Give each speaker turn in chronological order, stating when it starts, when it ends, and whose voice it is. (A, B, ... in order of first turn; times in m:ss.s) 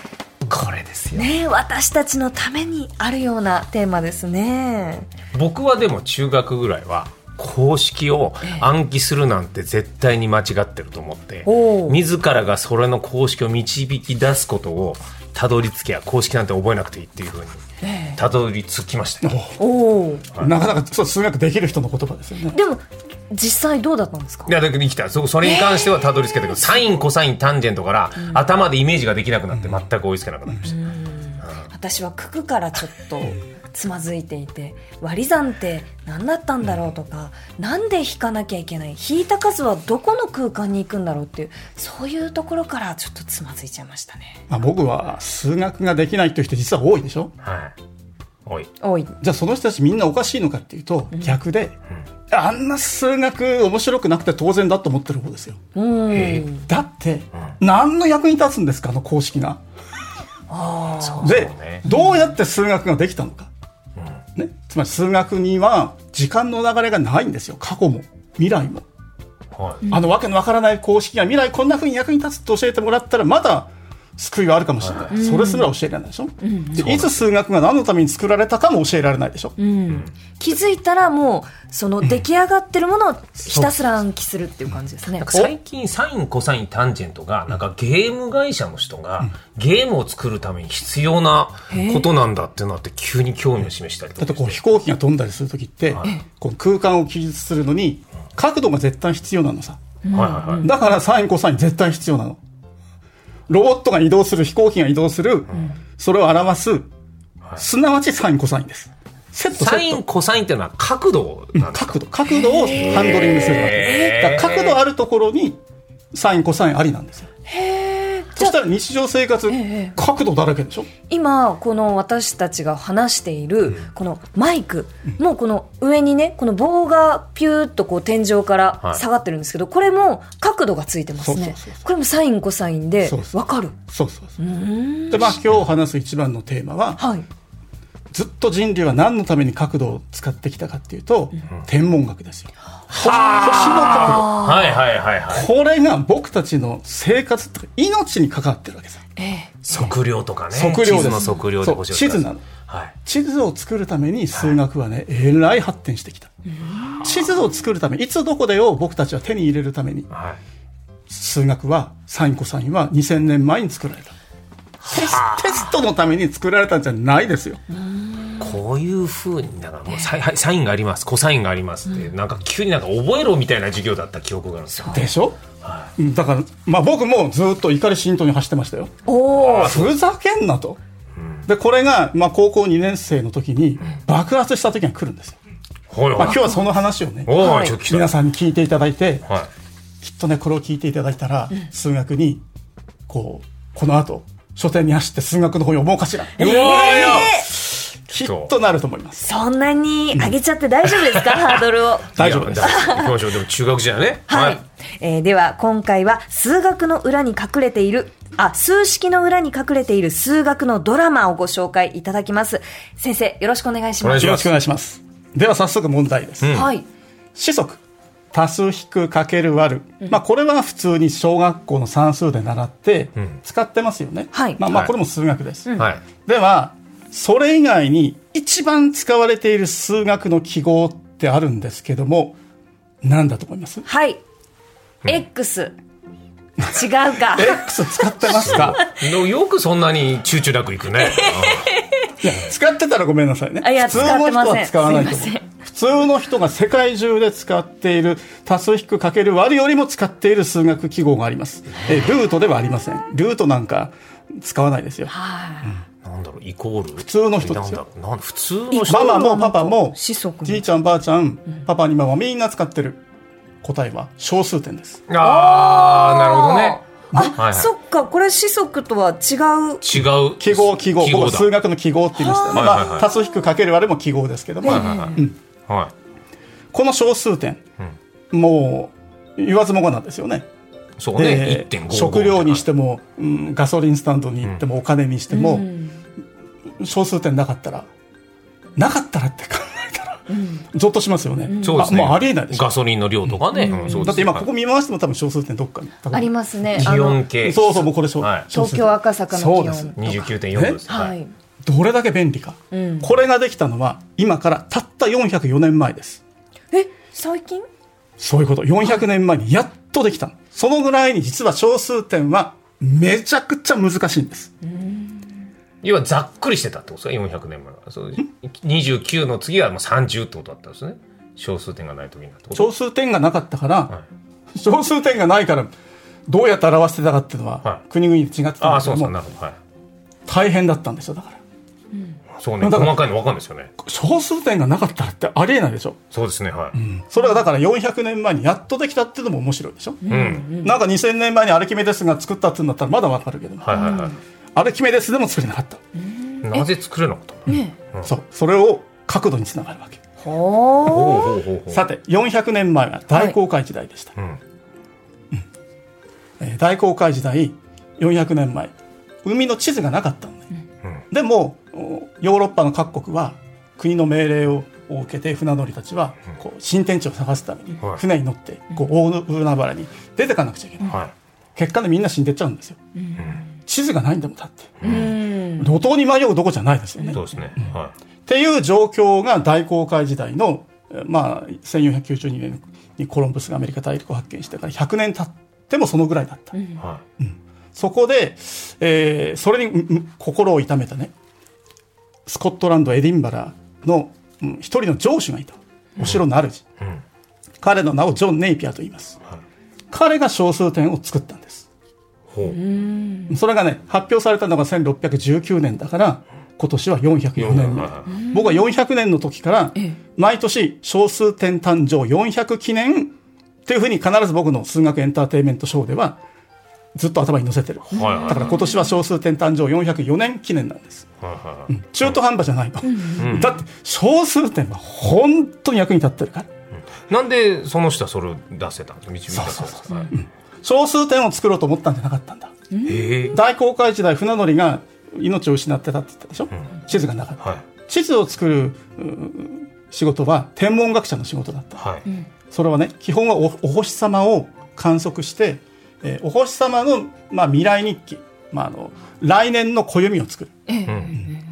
0:01.1-0:05.1 A
0:05.3-0:17.6 B
0:11.4-0:12.0 A
0:17.8-0:18.2 A
0:18.2-0:19.4 B
0:19.2-0:19.6 C
0:19.6-0:20.3 A
0:20.4-0:22.6 C
0:22.5-0:24.6 A
0:24.5-0:30.8 B
0:25.4-0:26.0 A
0:30.7-0:44.4 A
0:44.5-0:47.3 C
0:47.4-0:47.7 B
0:48.8-0:49.1 A
0:49.2-0:51.8 C
0:52.3-0:55.6 C
0:55.8-0:56.6 A
0:56.1-0:56.5 B
0:56.7-0:59.6 C
1:00.5-1:02.2 A
1:01.0-1:01.9 B
1:01.2-1:03.5 C
1:04.4-1:08.8 C
1:09.5-1:09.8 B
1:09.9-1:19.6 C
1:14.8-1:15.1 B
1:15.1-1:15.7 A
1:16.4-1:16.9 A
1:16.8-1:17.2 B
1:19.6-1:25.3 A
1:23.5-1:23.8 C
1:25.2-1:34.6 B
1:31.7-1:32.1 A
1:34.2-1:39.8 C
1:40.0-1:40.7 A
1:40.1-1:40.7 B
1:40.6-1:42.4 C
1:43.5-1:46.9 C
1:47.6-1:50.0 C
1:49.6-1:52.0 B
1:51.6-1:55.6 C
1:52.3-1:54.2 A
1:52.7-1:54.8 B
1:56.1-1:57.3 C
1:57.5-1:58.6 A
1:58.4-2:00.9 C
1:59.5-2:00.0 A
2:01.1-2:13.8 A
2:11.2-2:11.8 C
2:13.0-2:14.4 C
2:14.4-2:15.4 A
2:15.1-2:17.0 C
2:17.0-2:17.3 A
2:18.1-2:24.4 C
2:22.9-2:25.5 B
2:23.0-2:24.8 A
2:25.3-2:29.0 C
2:29.2-2:29.6 A
2:29.6-2:33.0 B
2:30.5-2:32.4 C
2:33.0-2:36.3 C
2:36.6-2:37.0 A
2:37.0-2:40.1 C
2:40.1-2:40.4 B
2:41.1-2:44.1 C
2:44.8-2:47.6 C
2:44.9-2:45.6 B
2:47.7-2:48.5 A
2:48.4-2:55.1 B
2:54.8-2:55.1 A
2:54.9-2:55.4 C
2:55.6-2:55.9 B
2:56.0-3:00.8 C
2:59.1-2:59.8 A
2:59.4-3:00.0 B
3:01.2-3:01.4 B
3:01.5-3:05.4 C
3:05.9-3:06.5 B
3:06.2-3:09.3 C
3:07.3-3:08.1 B
3:07.4-3:07.8 A
3:10.0-3:12.4 C
3:13.1-3:19.3 C
3:16.4-3:17.5 B
3:16.4-3:17.5 A
3:18.2-3:18.5 B
3:19.2-3:23.2 A
3:21.1-3:21.4 B
3:22.2-3:22.9 C
3:22.2-3:24.6 B
3:24.3-3:34.4 A
3:34.0-3:34.5 B
3:34.2-3:36.6 C
3:36.4-3:36.7 B
3:36.5-3:36.9 A
3:37.4-3:37.8 C
3:38.3-3:52.4 C
3:44.3-3:44.6 A
3:44.7-3:44.9 B
3:53.0-3:53.9 C
3:53.9-3:54.2 A
3:55.0-3:55.8 A
3:56.6-3:58.9 A
3:57.3-3:58.8 C
3:58.3-4:01.7 B
4:01.0-4:02.2 A
4:02.2-4:15.1 C
4:03.6-4:05.4 A
4:15.1-4:15.8 A
4:16.0-4:19.2 B
4:17.0-4:17.8 C
4:18.7-4:20.6 A
4:18.9-4:23.0 C
4:23.6-4:25.0 C
4:25.1-4:27.7 B
4:25.2-4:29.8 A
4:29.8-4:31.5 B
4:30.4-4:35.4 C
4:32.2-4:33.1 A
4:32.5-4:33.1 B
4:34.6-4:35.2 A
4:34.6-4:35.9 B
4:36.7-4:37.6 C
4:38.3-4:40.5 C
4:41.0-4:42.6 B
4:41.2-4:45.7 C
4:45.3-4:46.0 A
4:46.8-4:47.9 C
4:48.8-4:52.7 C
4:50.3-4:50.6 A
4:51.5-4:51.9 A
4:51.6-4:54.5 B
4:53.5-4:54.2 A
4:53.9-5:00.0 C
4:56.1-4:57.2 A
4:56.8-4:58.5 B
4:58.5-5:00.3 A
5:00.0-5:01.2 B
5:00.5-5:00.8 C
5:00.9-5:01.3 A
5:01.6-5:06.2 C
5:02.7-5:03.1 A
5:06.7-5:07.7 A
5:08.2-5:14.5 C
5:14.7-5:15.2 A
5:15.8-5:22.7 B
5:22.6-5:23.9 C
5:24.5-5:25.7 C
5:26.3-5:29.1 C
5:28.6-5:29.6 B
5:30.3-5:31.4 C
5:32.4-5:33.7 B
5:32.6-5:33.0 C
5:33.8-5:36.0 C
5:36.1-5:36.8 B
5:36.7-5:43.8 C
5:40.0-5:40.7 A
5:40.1-5:40.5 B
5:43.6-5:44.2 B
5:43.7-5:44.2 A
5:44.6-5:45.8 C
5:46.1-5:46.7 A
5:46.4-5:48.1 B
5:47.5-5:47.8 A
5:48.0-5:50.0 C
5:50.2-5:51.4 A
5:50.8-5:51.8 B
5:51.7-5:54.2 C
5:56.4-6:00.5 C
6:01.1-6:11.0 C
6:10.9-6:11.1 B
6:11.6-6:12.8 C
6:13.7-6:17.7 C
6:14.8-6:15.2 B
6:14.8-6:15.7 A
6:17.1-6:17.9 B
6:18.3-6:26.6 C
6:26.5-6:26.8 A
6:27.2-6:31.1 C
6:32.3-6:36.6 C
6:37.6-6:39.2 C
6:39.9-6:41.7 C
6:42.3-6:42.6 B
6:42.5-6:43.4 A
6:43.3-6:53.1 C
6:47.4-6:48.2 B
6:48.1-6:48.6 A
6:53.7-6:56.2 C
6:57.0-7:01.1 C
6:57.9-6:58.6 B
6:57.9-6:58.9 A
7:01.2-7:02.1 B
7:01.7-7:06.5 C
7:02.8-7:03.2 A
7:03.2-7:03.6 B
7:07.1-7:10.1 B
7:09.3-7:12.5 C
7:12.7-7:13.0 A
7:12.8-7:13.4 B
7:13.3-7:21.9 C
7:21.8-7:22.0 B
7:22.5-7:30.6 C
7:30.7-7:31.4 A
7:30.9-7:31.2 B